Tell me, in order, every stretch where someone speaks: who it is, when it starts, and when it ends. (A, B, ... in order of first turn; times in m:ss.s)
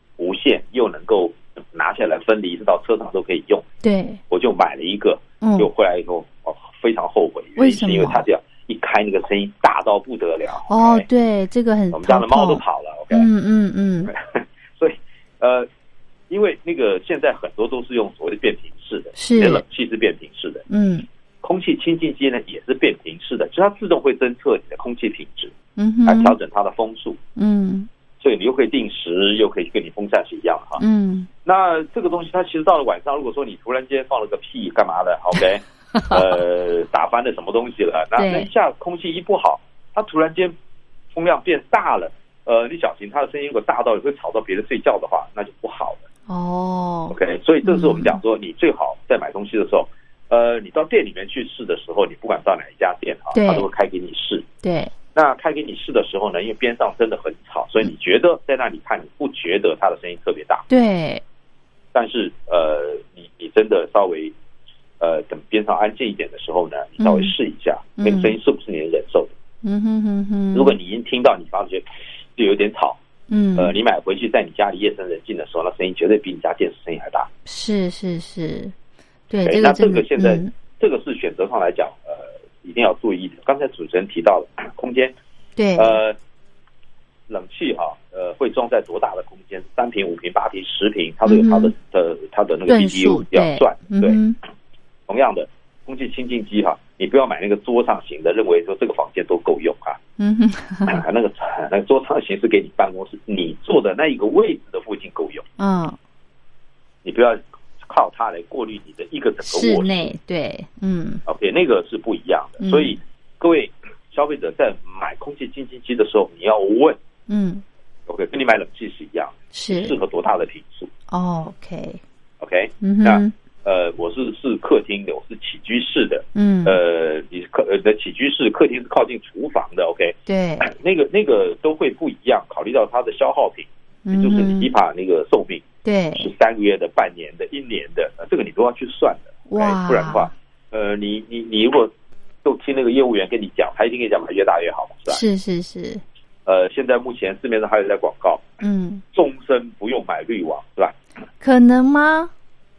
0:00.2-0:03.6 A
0:03.8-0:04.2 B
0:04.3-0:11.1 A
0:05.4-0:05.7 B
0:07.6-0:08.2 B
0:10.7-0:14.1 B
0:11.9-0:13.3 A
0:14.1-0:15.7 A
0:16.3-0:20.6 A
0:19.2-0:19.6 B
0:20.7-0:21.0 B
0:21.4-0:25.5 A
0:25.8-0:26.4 B
0:26.0-0:27.2 A
0:27.4-0:27.9 B
0:28.2-0:30.8 A
0:30.8-0:31.3 B
0:31.4-0:40.5 A
0:36.0-0:36.2 B
0:38.2-0:38.5 B
0:41.1-0:46.0 A
0:46.3-0:48.2 B
0:47.1-0:54.4 A
0:53.3-0:53.7 B
0:54.6-0:54.9 B
0:55.1-1:00.6 A
1:00.7-1:01.2 B
1:01.9-1:04.3 A
1:05.0-1:09.3 A
1:07.0-1:07.3 B
1:08.0-1:08.4 B
1:09.6-1:10.8 B
1:10.5-1:13.0 A
1:13.3-1:13.7 B
1:13.6-1:17.3 A
1:17.4-1:18.7 B
1:19.3-1:20.5 B
1:19.4-1:25.1 A
1:25.6-1:26.0 B
1:25.8-1:26.2 A
1:27.3-1:34.2 A
1:31.2-1:31.7 B
1:32.7-1:34.4 B
1:35.1-1:40.0 A
1:40.2-1:41.0 B
1:40.9-1:45.4 A
1:45.6-1:46.0 B
1:47.0-1:50.1 A
1:49.4-1:51.2 B
1:51.2-1:57.0 A
1:52.6-1:53.0 B
1:57.3-1:57.6 B
1:58.1-2:00.9 A
1:59.5-2:00.0 B
2:01.1-2:02.0 B
2:02.4-2:15.6 A
2:02.8-2:03.3 B
2:06.4-2:06.8 B
2:10.3-2:10.7 B
2:14.0-2:14.7 B
2:15.8-2:16.3 B
2:16.2-2:21.9 A
2:19.5-2:20.3 B
2:22.4-2:25.2 A
2:25.1-2:26.0 B
2:26.4-2:28.4 A
2:28.6-2:29.0 B
2:29.1-2:31.0 A
2:31.4-2:32.3 B